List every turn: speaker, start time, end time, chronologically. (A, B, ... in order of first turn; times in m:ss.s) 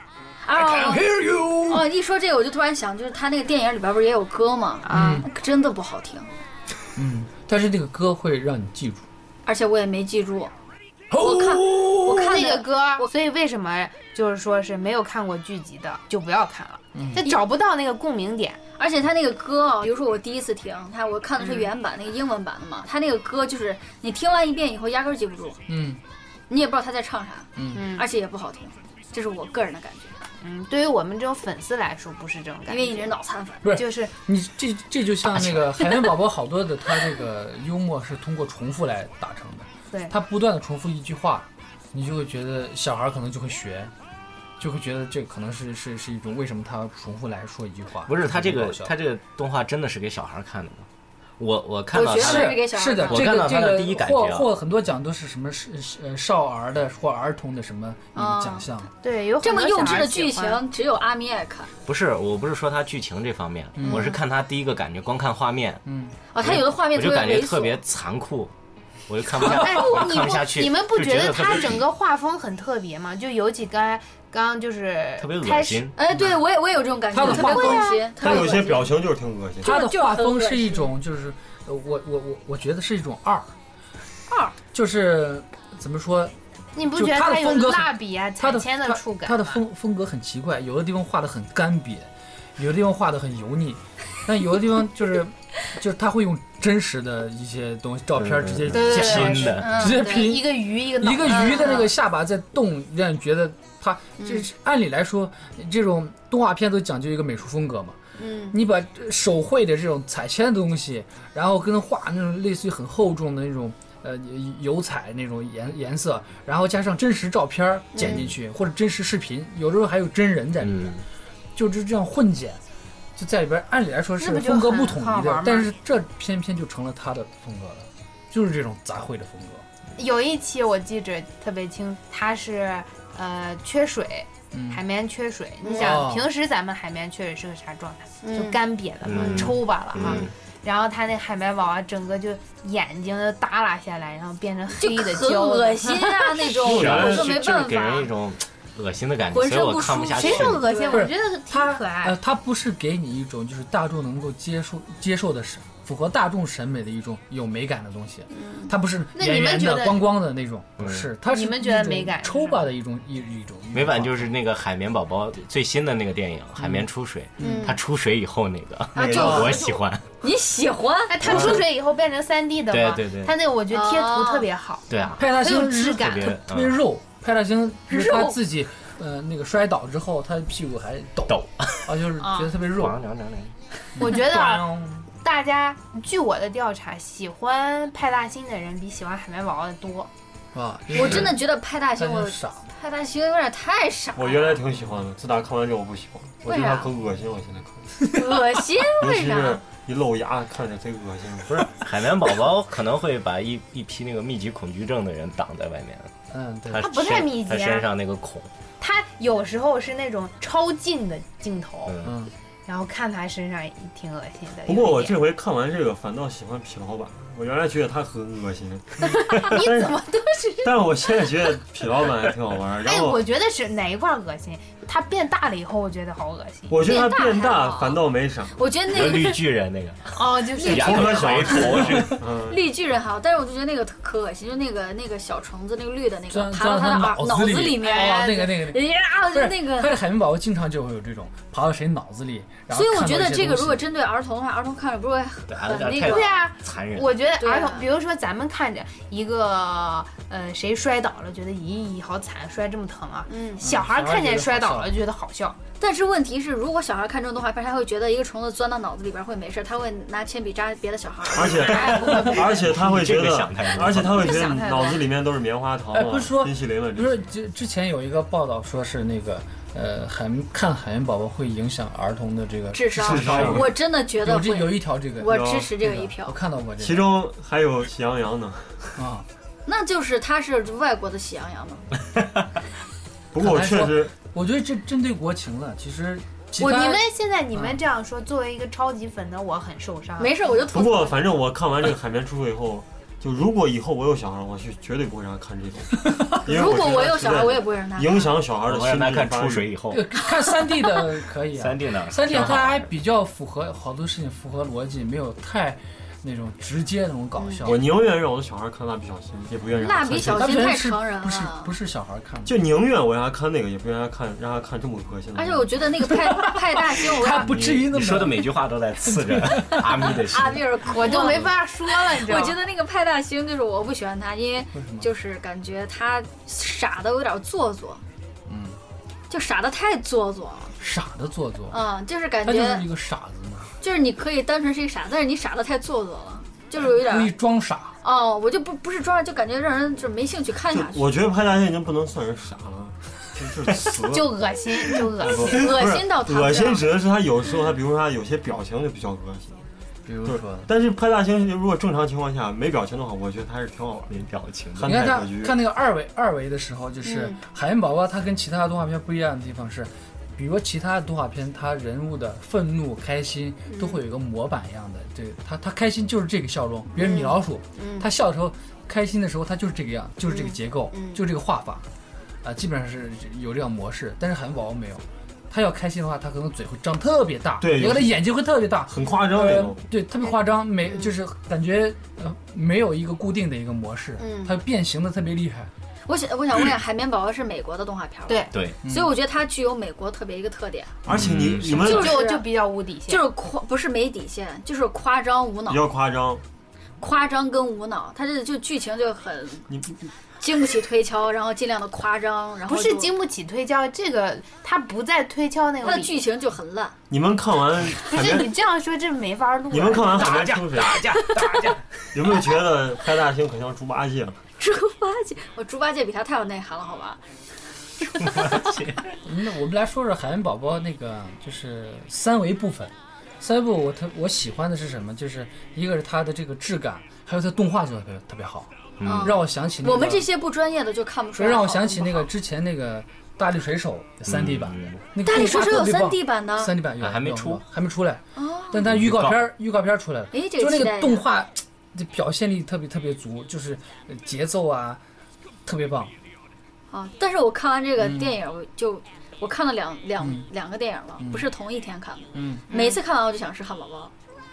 0:00.4-0:01.0 A
0:00.6-0:01.8 B
0:01.6-0:06.3 A
0:04.8-0:05.3 C
0:04.9-0:05.3 B
0:07.0-0:09.0 B
0:09.4-0:10.5 A
0:11.1-0:12.1 B
0:11.2-0:13.1 A
0:12.0-0:18.6 C
0:16.9-0:17.3 B
0:18.8-0:25.6 A
0:21.4-0:21.7 C
0:25.7-0:26.0 B
0:26.5-0:30.2 A
0:27.6-0:27.9 B
0:27.7-0:28.0 C
0:30.4-0:33.2 C
0:32.7-0:33.6 A
0:33.6-0:43.9 B
0:33.7-0:34.1 C
0:44.6-0:48.9 B
0:48.1-0:50.8 D
0:51.4-0:54.5 D
0:51.9-0:53.3 A
0:52.1-0:58.9 B
0:58.1-0:58.6 A
0:59.0-1:00.6 C
0:59.4-1:01.7 A
1:01.8-1:05.8 D
1:03.8-1:04.1 B
1:05.8-1:06.1 B
1:06.3-1:07.8 A
1:06.4-1:08.5 D
1:09.1-1:11.8 D
1:09.4-1:15.9 C
1:09.4-1:09.8 B
1:15.2-1:16.0 D
1:16.0-1:18.9 A
1:17.1-1:18.0 B
1:17.2-1:17.6 E
1:17.3-1:18.0 C
1:18.1-1:19.7 E
1:19.6-1:20.9 A
1:19.6-1:23.5 B
1:24.3-1:24.5 A
1:24.7-1:26.3 B
1:26.8-1:29.6 C
1:26.9-1:48.0 B
1:38.2-1:39.9 D
1:38.7-1:41.9 C
1:39.5-1:40.3 A
1:41.3-1:41.9 A
1:44.2-1:44.4 A
1:48.2-1:48.5 A
1:48.5-2:01.0 B
1:58.0-1:58.2 A
2:00.6-2:01.0 D
2:01.6-2:02.6 B
2:03.2-2:09.6 B
2:04.2-2:05.7 C
2:10.0-2:26.5 C
2:14.5-2:14.8 B
2:15.6-2:16.0 A
2:15.8-2:16.3 B
2:18.2-2:18.6 A
2:19.0-2:20.3 D
2:19.1-2:20.3 A
2:24.8-2:28.1 A
2:26.5-2:27.5 E
2:26.6-2:30.7 D
2:29.3-2:31.1 A
2:30.2-2:32.2 C
2:30.9-2:44.3 B
2:38.3-2:38.7 A
2:39.1-2:40.1 C
2:40.8-2:41.1 D
2:41.2-2:42.6 C
2:43.7-2:50.0 D
2:46.6-2:47.7 B
2:47.4-2:47.8 A
2:48.9-2:49.6 E
2:48.9-2:49.7 A
2:49.2-2:49.6 B
2:50.2-2:51.2 A
2:51.1-2:56.3 C
2:51.2-2:51.7 D
2:52.7-2:53.3 D
2:53.7-2:54.5 A
2:54.9-2:55.3 D
2:55.2-3:03.0 B
2:56.0-2:56.8 D
2:57.9-2:58.4 A
3:01.3-3:02.0 D
3:02.7-3:03.5 D
3:04.0-3:05.1 B
3:04.0-3:04.7 C
3:05.2-3:10.1 C
3:10.5-3:11.4 B
3:10.9-3:14.6 A
3:11.9-3:12.6 B
3:14.2-3:18.0 E
3:16.4-3:16.9 A
3:18.1-3:19.6 A
3:18.9-3:21.6 E
3:21.5-3:26.1 D
3:26.3-3:26.9 B
3:26.7-3:28.5 D
3:26.8-3:27.9 C
3:28.8-3:32.0 C
3:31.9-3:32.1 D
3:32.0-3:32.3 B
3:32.7-3:35.2 C
3:34.7-3:40.0 E
3:39.0-3:41.1 C
3:40.6-3:43.2 E
3:42.8-3:47.0 C
3:46.7-3:48.6 E
3:46.8-3:48.0 A
3:48.5-3:49.4 A
3:48.9-3:52.2 D
3:50.1-3:51.7 C
3:50.7-3:52.6 E
3:52.5-3:59.9 A
3:56.3-4:03.8 B
3:57.8-3:58.5 C
4:02.7-4:06.4 A
4:05.5-4:07.2 D
4:06.0-4:15.6 C
4:07.4-4:07.9 A
4:13.3-4:13.6 A
4:13.6-4:15.0 B
4:15.8-4:22.4 A
4:21.3-4:27.2 E
4:21.6-4:24.4 D
4:21.8-4:22.2 C
4:24.1-4:25.1 C
4:25.9-4:37.1 B
4:32.7-4:36.4 A
4:33.0-4:33.8 E
4:35.3-4:35.7 E
4:36.8-4:39.0 E
4:39.0-4:39.3 B
4:39.6-4:41.8 A
4:43.3-4:44.1 E
4:43.3-4:47.0 B
4:46.6-4:50.4 C
4:46.6-4:47.0 A
4:47.5-4:47.8 B
4:50.2-4:51.2 A
4:50.7-4:59.7 E
4:56.4-4:58.4 A
4:58.7-5:00.0 D
4:59.9-5:07.9 B
5:01.5-5:02.9 D
5:07.4-5:07.8 A
5:07.6-5:10.6 E
5:09.8-5:11.7 A
5:10.3-5:12.6 B
5:12.4-5:15.7 E
5:15.3-5:17.5 A
5:16.1-5:20.2 B
5:17.2-5:17.9 E
5:17.8-5:21.5 D
5:20.0-5:28.0 A
5:20.8-5:22.6 C
5:24.7-5:25.1 B
5:28.5-5:28.8 B
5:29.3-5:30.7 A
5:30.8-5:31.9 B
5:31.7-5:32.9 A
5:32.4-5:33.7 B
5:33.8-5:37.3 A
5:36.8-5:37.9 B
5:38.0-5:41.0 A
5:40.7-5:44.4 E
5:44.1-5:45.9 C
5:44.9-5:49.6 E
5:45.2-5:46.9 A
5:50.0-5:50.7 B
5:50.2-5:54.2 E
5:54.1-5:54.9 D
5:54.7-5:55.6 E
5:54.8-6:11.8 B
5:57.0-5:57.4 A
6:03.7-6:04.0 A
6:07.0-6:08.0 A
6:10.3-6:11.2 A
6:12.4-6:25.7 B
6:17.6-6:18.2 E
6:18.9-6:19.8 E
6:26.1-6:30.9 A
6:28.8-6:29.1 B
6:31.0-6:32.2 E
6:31.1-6:32.0 D
6:31.8-6:32.5 A
6:31.9-6:33.3 C
6:33.1-6:35.8 A
6:35.7-6:36.4 E
6:37.0-6:39.6 A
6:40.4-6:43.1 A
6:42.7-6:46.2 C
6:45.8-6:46.9 A
6:47.1-6:48.6 E
6:48.0-6:50.4 C
6:49.7-6:51.3 E
6:50.4-6:51.3 D
6:52.1-6:54.4 E
6:54.6-6:57.2 A
6:58.0-6:58.7 A
6:58.2-6:59.0 D
6:59.2-7:10.3 B
7:09.0-7:09.4 D
7:09.0-7:12.3 A
7:11.4-7:25.0 B
7:14.3-7:15.0 D
7:15.2-7:16.8 A
7:17.0-7:17.6 D
7:18.4-7:18.8 A
7:18.9-7:19.5 D
7:20.3-7:21.2 A
7:25.6-7:26.1 B
7:26.9-7:34.1 A
7:28.0-7:28.4 B
7:30.2-7:30.5 B
7:31.2-7:31.5 B
7:32.3-7:32.6 B
7:32.7-7:33.0 C